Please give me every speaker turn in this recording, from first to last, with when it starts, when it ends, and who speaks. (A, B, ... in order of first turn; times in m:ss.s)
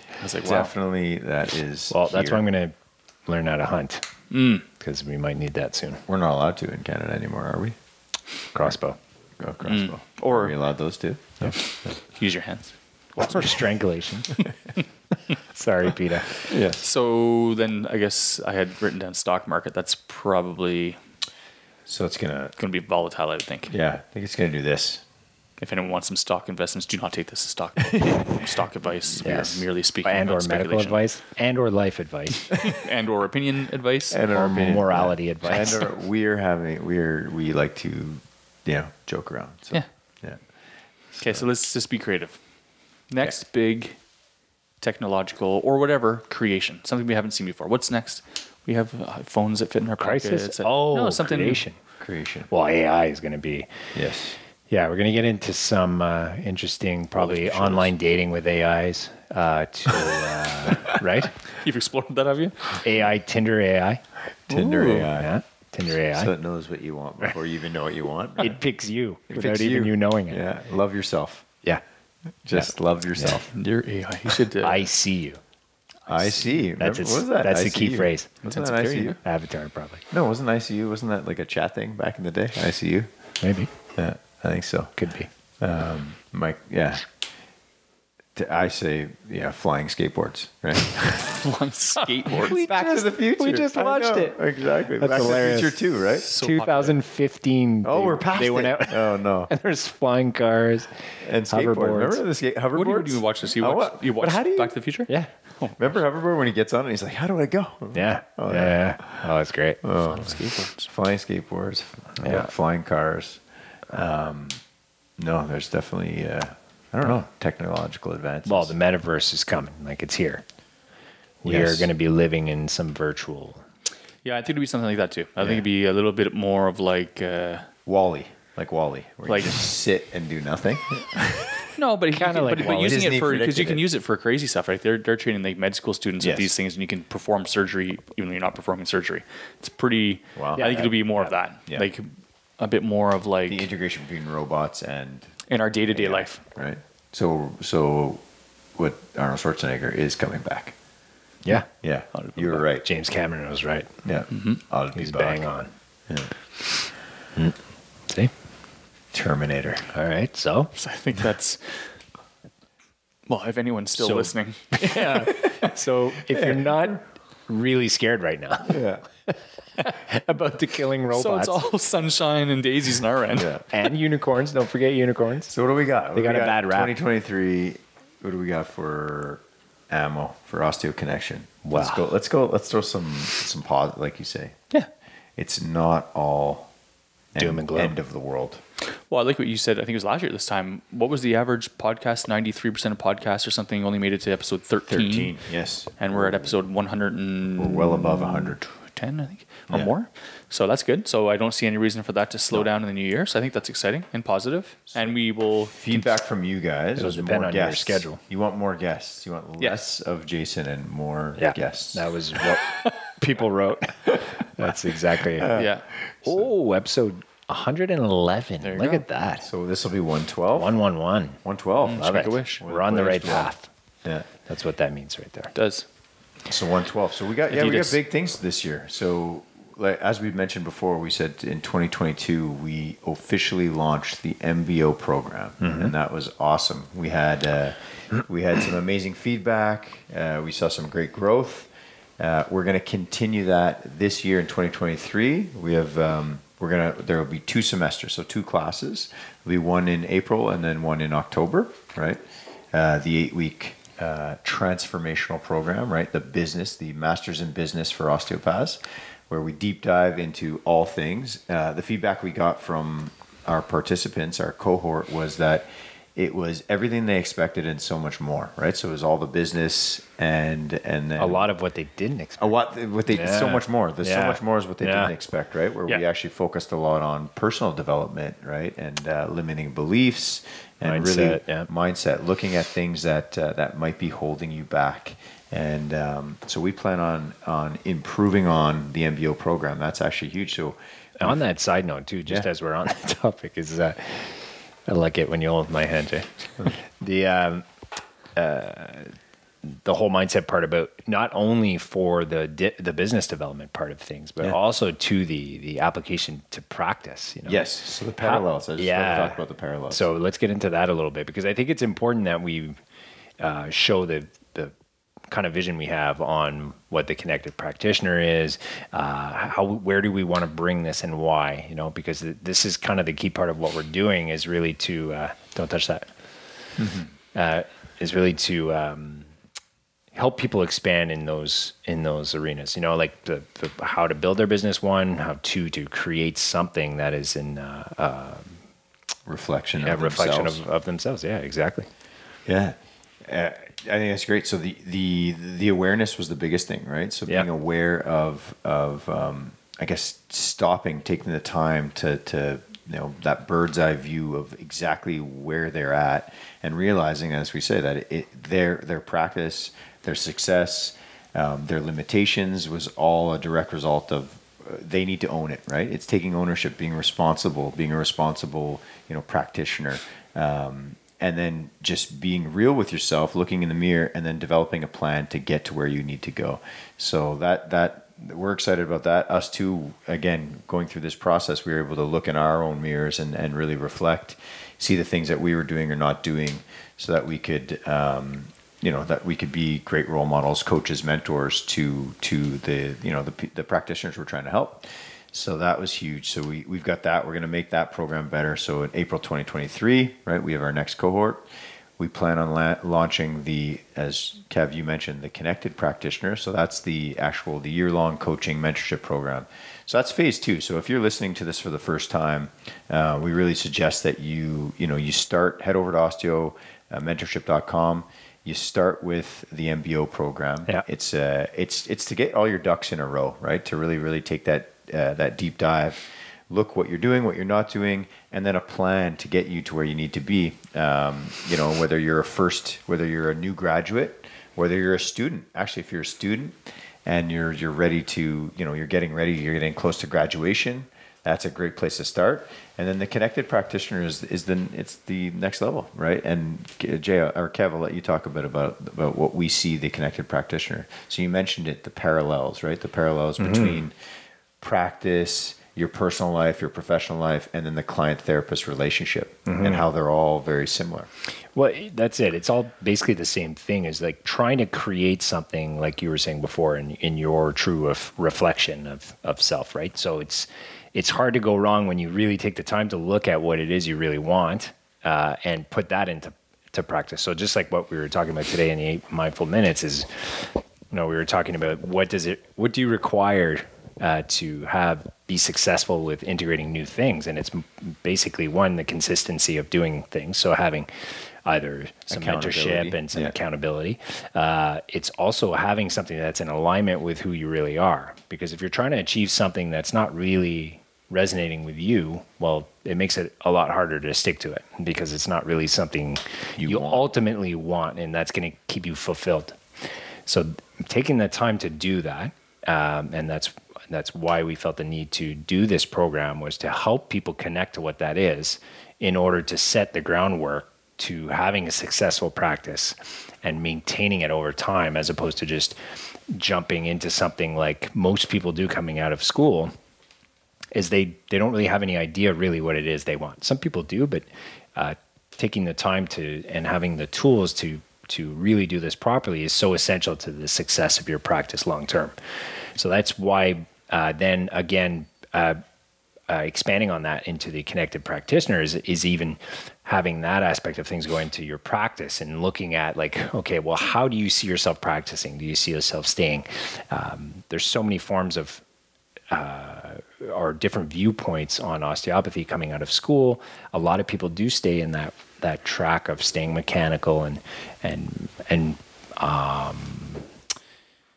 0:00.2-0:00.7 A
0:00.4-0:02.4 B
0:01.9-0:02.8 C
0:03.3-0:04.1 C
0:04.3-0:04.6 A
0:04.8-0:06.0 C
0:06.1-0:07.8 B
0:08.5-0:09.0 C
0:09.4-0:12.0 B
0:09.6-0:10.6 A
0:11.5-0:12.8 A
0:13.2-0:14.4 C
0:15.3-0:16.3 C
0:16.4-0:21.0 A
0:16.5-0:16.8 B
0:21.9-0:22.5 B
0:22.6-0:23.7 A
0:23.7-0:25.0 B
0:25.6-0:31.0 A
0:27.9-0:28.2 B
0:29.2-0:32.6 C
0:32.6-0:34.2 A
0:34.1-0:40.4 B
0:34.3-0:35.9 C
0:41.1-0:41.4 B
0:41.2-0:42.4 A
0:43.1-0:44.0 A
0:44.8-0:51.6 A
0:50.0-0:51.8 C
0:52.0-0:52.5 B
0:52.5-0:53.7 C
0:53.9-0:54.4 B
0:54.7-1:01.4 C
0:57.2-0:57.9 B
1:01.5-1:02.8 A
1:02.8-1:04.0 C
1:04.5-1:05.3 B
1:04.5-1:05.1 A
1:05.1-1:06.3 C
1:05.9-1:08.6 B
1:08.4-1:10.4 C
1:09.3-1:11.5 B
1:12.4-1:13.5 B
1:12.5-1:13.4 C
1:13.5-1:14.9 A
1:14.6-1:15.4 C
1:16.1-1:19.2 B
1:16.8-1:18.3 C
1:18.4-1:19.2 A
1:19.2-1:20.0 C
1:20.1-1:23.1 B
1:23.4-1:23.7 C
1:23.9-1:24.9 B
1:25.0-1:25.3 C
1:25.6-1:27.1 B
1:28.4-1:31.4 B
1:31.2-1:32.6 A
1:32.3-1:42.2 C
1:32.3-1:36.3 B
1:36.2-1:37.0 A
1:37.8-1:39.5 B
1:41.2-1:44.8 B
1:42.7-1:45.9 A
1:45.8-1:49.3 B
1:47.9-1:49.8 C
1:49.8-1:54.6 B
1:50.0-1:50.9 A
1:52.2-1:52.5 C
1:55.2-1:58.7 B
1:58.5-2:00.4 C
2:01.4-2:03.6 C
2:01.4-2:01.9 B
2:04.2-2:07.7 A
2:07.9-2:11.7 B
2:09.3-2:09.7 A
2:11.7-2:22.1 A
2:12.1-2:13.1 C
2:12.5-2:13.8 B
2:16.2-2:16.5 B
2:20.4-2:20.9 B
2:20.6-2:21.3 C
2:22.6-2:23.7 A
2:23.5-2:25.3 B
2:25.5-2:26.4 A
2:25.9-2:28.2 B
2:28.8-2:30.8 B
2:31.5-2:32.9 B
2:32.1-2:32.6 A
2:32.8-2:33.9 C
2:34.0-2:35.5 B
2:34.3-2:34.6 A
2:34.9-2:35.7 C
2:39.1-2:39.9 B
2:39.9-2:40.7 C
2:40.8-2:41.9 A
2:43.3-2:45.3 A
2:44.0-2:51.6 C
2:46.3-2:47.0 B
2:48.6-2:49.0 B
2:51.1-2:53.6 A
2:53.4-2:53.6 B
2:53.7-2:55.6 C
2:55.5-3:04.6 B
2:56.2-2:57.0 C
3:01.6-3:02.1 C
3:05.4-3:06.7 B
3:07.3-3:08.6 B
3:07.4-3:08.0 C
3:09.1-3:15.4 A
3:14.9-3:16.6 B
3:16.0-3:26.1 A
3:17.6-3:18.6 B
3:25.7-3:32.1 B
3:27.0-3:28.2 C
3:31.4-3:35.7 C
3:35.2-3:35.7 B
3:35.5-3:35.8 A
3:36.2-3:39.5 C
3:38.6-3:39.0 A
3:39.4-3:40.8 B
3:40.6-3:43.7 C
3:41.4-3:43.5 B
3:41.8-3:42.6 A
3:44.5-3:45.5 C
3:45.6-3:45.9 A
3:46.5-4:31.5 B
3:47.5-3:48.0 A
3:55.6-3:55.9 C
4:31.2-4:32.6 C
4:32.4-4:51.4 B
4:33.1-4:35.1 C
4:40.8-4:41.7 C
4:51.2-4:57.7 C
4:58.4-5:07.7 C
5:07.5-5:10.1 B
5:08.2-5:12.8 C
5:13.4-5:14.7 C
5:15.3-5:26.1 C
5:26.8-5:27.1 B
5:27.4-5:29.3 C
5:30.1-5:38.6 C
5:39.3-5:40.6 B
5:39.8-5:41.9 C
5:42.5-6:41.5 B
6:42.0-7:34.0 B
7:33.4-7:33.8 C
7:34.6-7:41.1 B
7:39.5-7:39.9 C
7:41.5-8:10.9 C
8:11.4-8:29.6 C
8:12.1-8:13.4 B
8:26.6-8:27.1 B
8:30.3-8:45.8 C
8:46.3-8:49.7 C
8:50.7-8:54.2 C
8:54.8-9:02.2 C
9:02.8-9:05.6 C
9:06.3-9:18.6 C
9:19.3-9:30.2 C